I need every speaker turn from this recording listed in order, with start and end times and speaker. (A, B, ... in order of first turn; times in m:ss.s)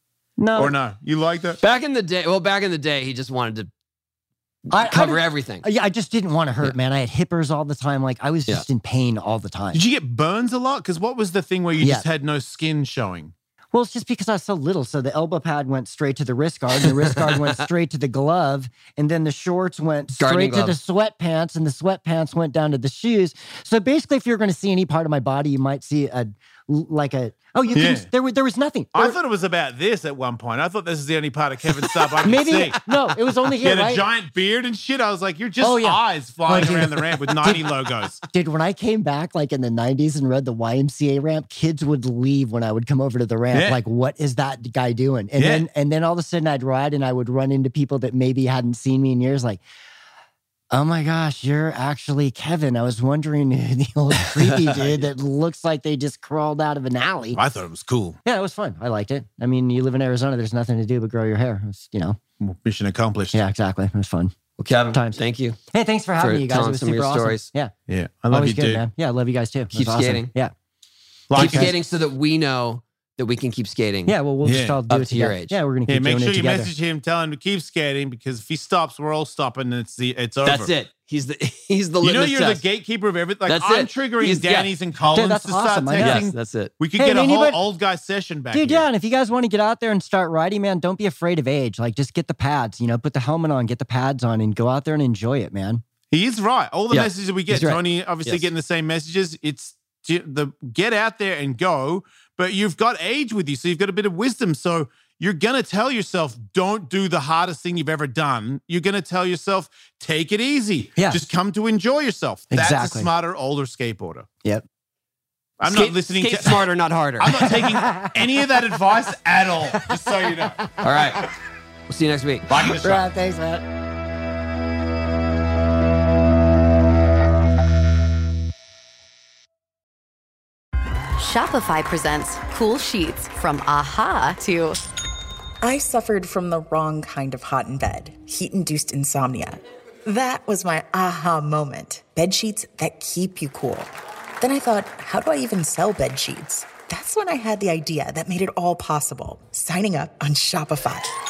0:00.4-0:00.8 A
0:00.6-0:01.6 B
0:01.6-0:03.7 C
0:04.7-0:05.6 C
0:04.7-0:09.8 A
0:09.7-0:13.3 B
0:11.8-0:12.0 A
0:13.7-0:29.2 A
0:16.8-0:17.6 C
0:20.1-0:20.8 C
0:27.7-0:28.1 B
0:28.9-0:32.8 B
0:32.2-0:34.0 A
0:33.6-0:38.2 B
0:35.6-0:37.7 A
0:38.3-0:49.6 A
0:43.5-0:43.8 B
0:45.4-0:45.7 B
0:50.7-0:57.4 A
0:57.3-0:58.2 B
0:58.2-1:02.2 A
1:02.4-1:03.4 B
1:03.3-1:04.3 A
1:04.6-1:05.6 C
1:04.9-1:05.2 A
1:05.7-1:07.7 A
1:06.2-1:07.5 C
1:07.9-1:08.8 B
1:08.3-1:10.5 A
1:09.7-1:10.3 C
1:11.3-1:11.8 B
1:11.4-1:14.1 C
1:11.4-1:11.7 A
1:14.1-1:16.7 A
1:14.4-1:14.8 B
1:14.9-1:15.6 C
1:15.9-1:20.7 B
1:20.4-1:22.6 C
1:22.0-1:28.9 B
1:23.5-1:24.7 C
1:25.0-1:26.2 A
1:26.0-1:26.7 C
1:27.0-1:27.6 A
1:28.5-1:35.8 A
1:36.1-1:54.3 B
1:36.9-1:38.5 C
1:51.0-1:51.2 A
1:52.5-1:53.1 A
1:55.6-1:56.7 B
1:55.6-1:57.4 C
1:57.2-2:00.7 B
1:57.4-1:58.1 A
2:00.8-2:01.3 C
2:00.9-2:01.2 A
2:01.9-2:02.9 C
2:02.5-2:03.0 B
2:02.6-2:03.6 A
2:11.2-2:14.8 D
2:15.6-2:31.1 E